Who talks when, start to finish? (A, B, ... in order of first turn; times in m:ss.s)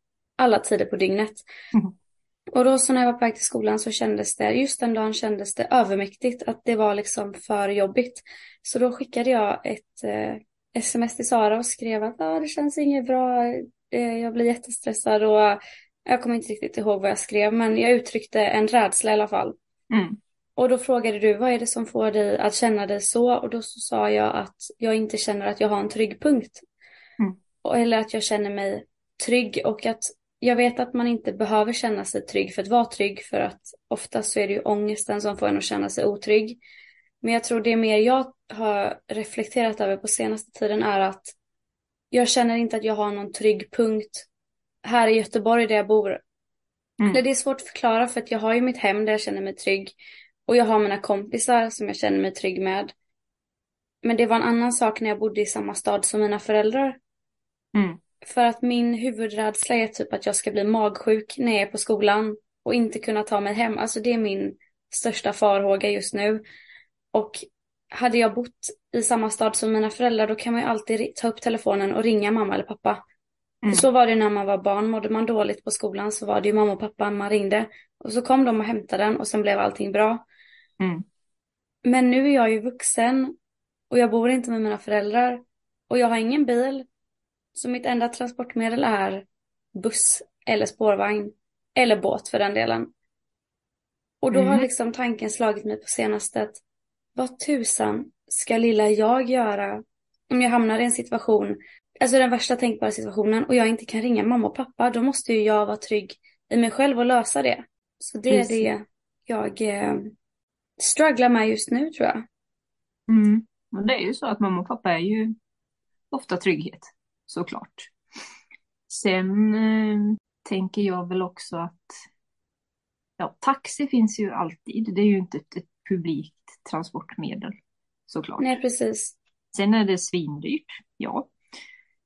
0:00.4-0:01.4 A
0:02.5-0:19.6 A
0:19.9-0:20.2 B
0:20.6-0:26.6 A
0:27.6-0:36.6 A
0:37.2-0:41.3 A
0:42.1-0:44.3 A
0:44.8-0:46.2 A
0:47.1-0:49.9 A
0:50.5-0:52.9 A
0:54.0-0:57.0 A
0:57.7-0:58.0 B
0:58.2-1:06.4 A
1:07.1-1:07.4 A
1:07.9-1:13.0 A
1:13.7-1:20.2 A
1:21.8-1:23.3 A
1:23.9-1:26.9 A
1:27.5-1:32.9 A
1:34.2-1:36.6 A
1:34.3-1:34.7 B
1:37.2-1:50.1 A
1:48.3-1:48.7 B
1:50.8-1:52.2 A
1:53.1-1:55.3 B
1:56.1-1:57.9 B
1:58.9-2:02.0 B
2:03.2-2:07.5 B
2:08.1-2:08.6 B
2:08.4-2:09.1 A
2:09.5-2:11.3 B